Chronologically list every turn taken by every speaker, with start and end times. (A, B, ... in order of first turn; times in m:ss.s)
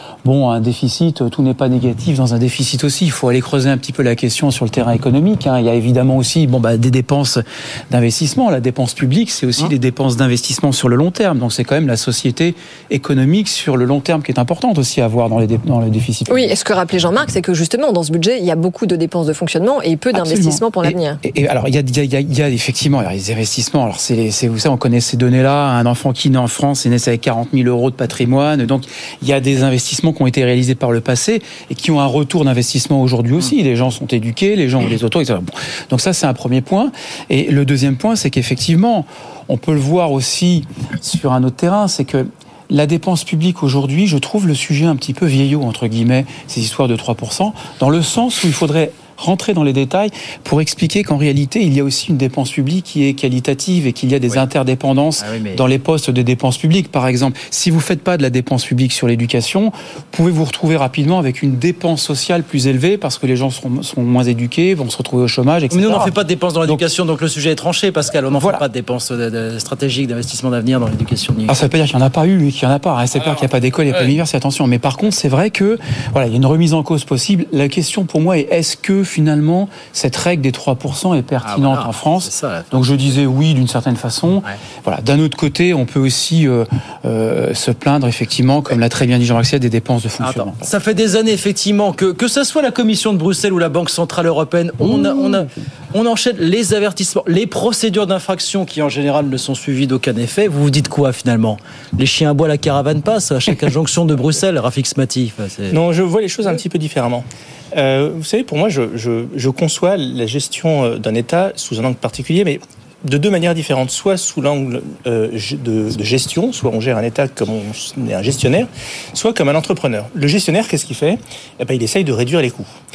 0:00.2-0:16.5 A
0:16.3-0:21.2 B
0:20.1-1:06.1 A
0:55.2-0:55.6 C
1:05.7-1:11.6 C
1:08.4-1:08.6 A
1:11.5-1:30.7 A
1:21.4-1:23.2 C
1:30.2-1:45.8 C
1:45.7-2:02.7 D